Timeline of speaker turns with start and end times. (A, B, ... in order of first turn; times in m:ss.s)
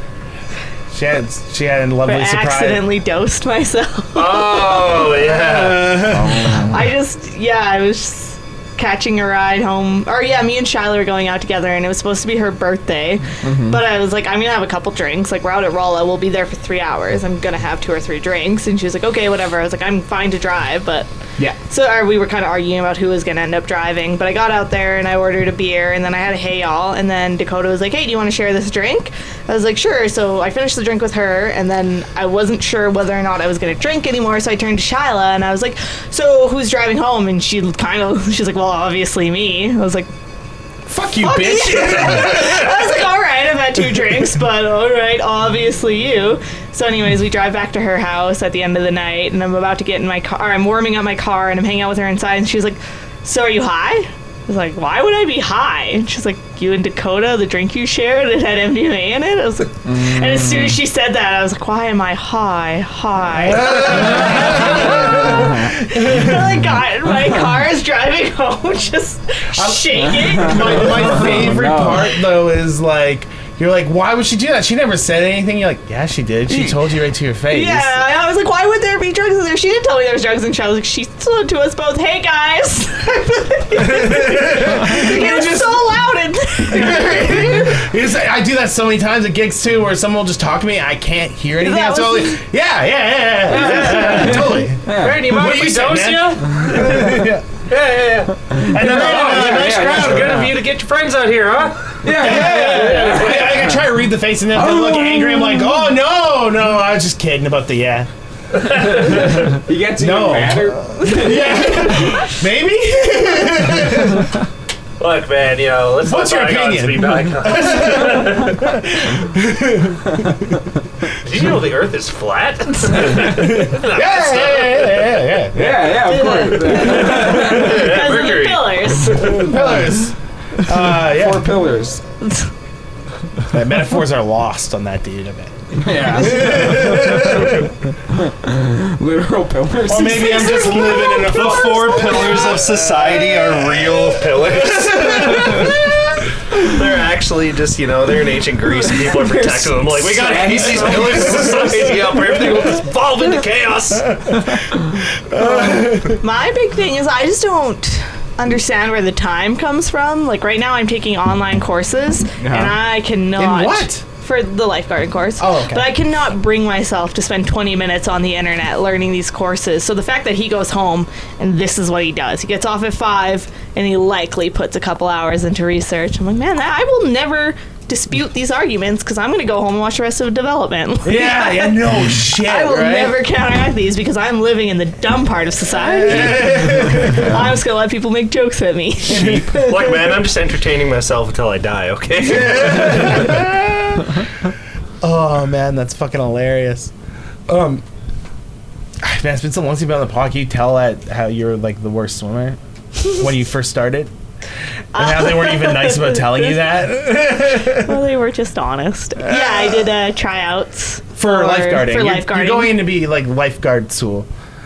0:00.9-0:02.9 A
0:02.0-0:05.2 B
0:04.1-0:06.2 C
0:05.2-0:06.4 A
0:06.1-0:06.8 D
0:06.7-0:21.1 B
0:13.4-0:13.8 D
0:21.7-0:40.1 B
0:40.8-0:43.0 A
0:41.2-1:11.4 B
0:59.8-1:00.8 D
1:03.3-1:06.5 A
1:05.2-1:05.7 D
1:07.1-1:07.6 D
1:09.5-1:18.0 A
1:09.9-1:12.1 D
1:17.5-1:27.8 B
1:23.8-1:26.0 A
1:26.7-1:37.4 A
1:31.6-1:32.4 B
1:33.5-1:35.3 D
1:33.6-1:43.1 C
1:38.5-1:40.6 D
1:38.7-1:40.4 A
1:42.0-1:43.8 D
1:42.1-1:48.1 A
1:44.5-1:45.8 D
1:48.5-1:49.6 C
1:49.1-1:51.7 D
1:50.0-1:54.3 A
1:55.0-1:58.8 C
1:56.0-2:00.6 A
2:01.1-2:05.3 C
2:03.4-2:07.8 A
2:05.5-2:07.6 D
2:06.0-2:09.5 B
2:06.9-2:09.4 C
2:09.1-2:11.6 A
2:10.7-2:12.0 D
2:13.5-2:17.7 A
2:15.8-2:20.6 D
2:19.9-2:23.7 A
2:20.1-2:21.8 B
2:21.0-2:34.6 C
2:24.6-2:25.9 A
2:28.8-2:32.4 D
2:35.3-2:36.2 A
2:35.3-3:09.4 B
2:42.4-2:42.8 D
2:43.4-2:44.0 A
2:45.4-2:46.0 A
3:01.0-3:03.2 A
3:05.8-3:07.4 A
3:07.1-3:07.3 D
3:09.1-3:10.0 A
3:09.2-3:13.3 C
3:12.2-3:14.2 A
3:15.0-3:16.9 A
3:17.5-3:17.8 A
3:19.0-3:24.1 A
3:24.9-3:26.6 B
3:24.9-3:28.0 A
3:27.6-3:32.8 B
3:29.2-3:29.9 A
3:31.2-3:34.3 A